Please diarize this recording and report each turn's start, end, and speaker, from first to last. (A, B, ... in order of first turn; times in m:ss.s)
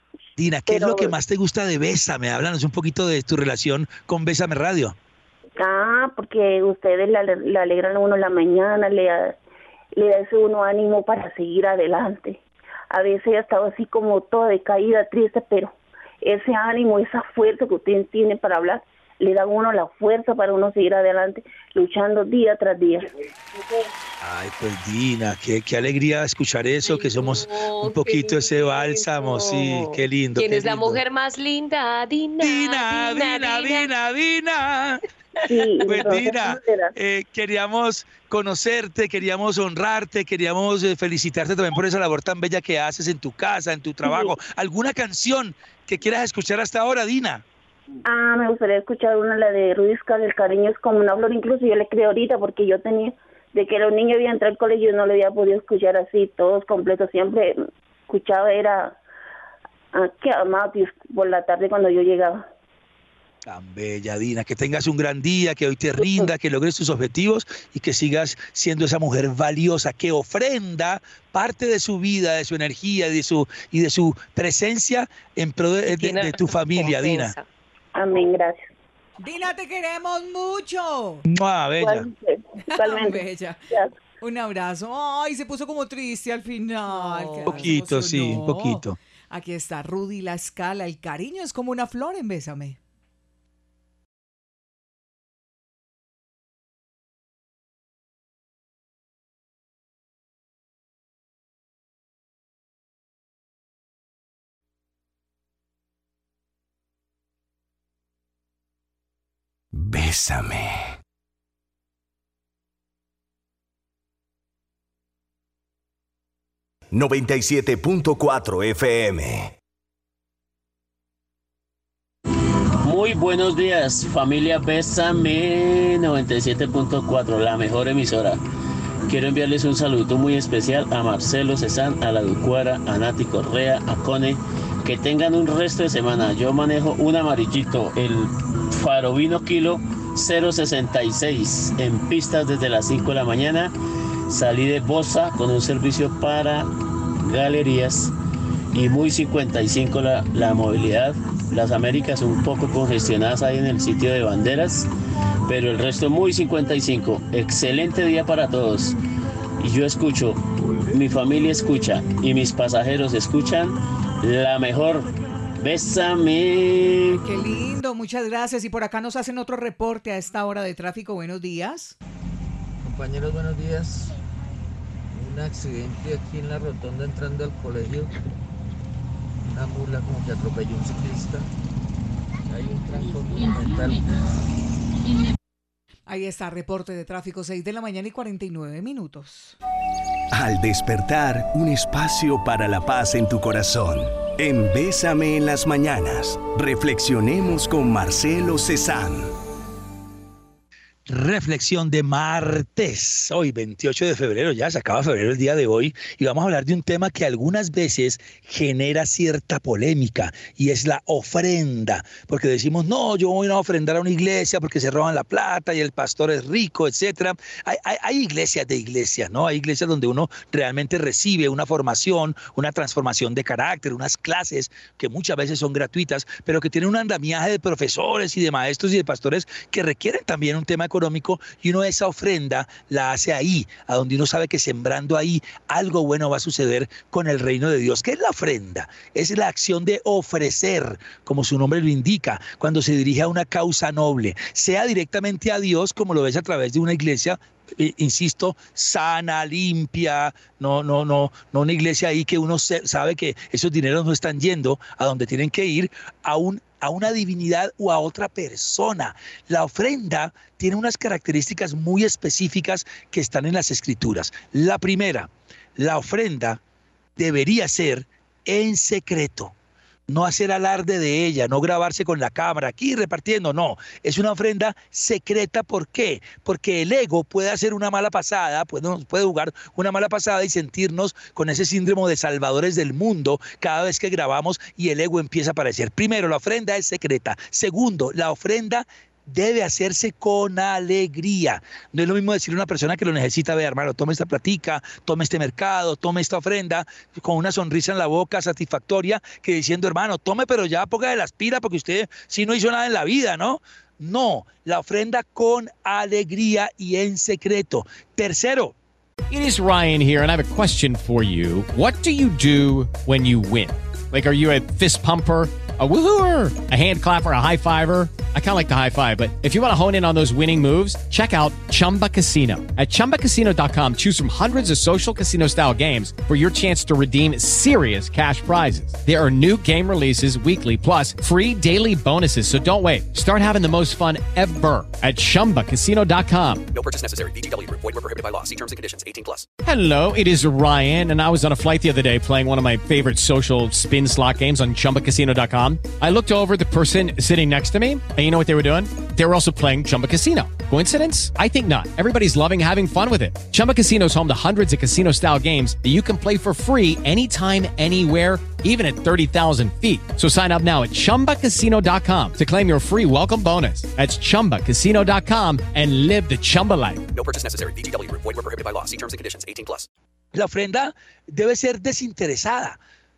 0:00.4-0:04.9 A
0:00.7-0:01.1 B
0:05.6-0:09.4 B
0:10.0-0:12.4 B
0:12.9-0:23.0 B
0:24.2-0:31.0 A
0:26.8-0:33.9 C
0:32.4-0:35.0 A
0:35.5-0:36.9 B
0:35.8-0:47.4 A
0:44.0-0:44.3 B
0:48.0-0:57.6 B
0:58.1-0:58.9 B
0:59.9-1:02.4 B
1:03.4-1:17.3 A
1:16.0-1:17.4 C
1:17.9-1:18.7 B
1:19.2-1:21.2 D
1:21.2-1:22.1 A
1:21.8-1:23.9 B
1:22.7-1:23.6 D
1:24.2-1:32.8 D
1:27.2-1:27.6 C
1:27.4-1:29.0 A
1:49.7-1:50.9 E
1:56.9-1:59.5 E
2:02.8-2:08.4 F
2:09.1-2:23.7 F
2:24.3-2:28.1 F
2:28.7-2:34.9 F
2:35.4-2:39.0 F
2:39.6-2:45.1 F
2:45.6-2:47.2 F
2:47.2-2:52.0 D
2:52.8-2:54.1 G
2:55.1-2:58.1 G
2:59.4-3:01.5 G
3:02.4-3:04.3 G
3:06.1-3:09.6 D
3:10.3-3:19.3 E
3:21.1-4:26.6 A
4:27.2-4:29.5 A
4:30.1-5:08.7 A
5:09.3-5:36.7 H
5:36.7-5:39.5 I
5:39.6-6:07.1 H
6:07.1-6:09.9 I
6:10.3-6:12.8 A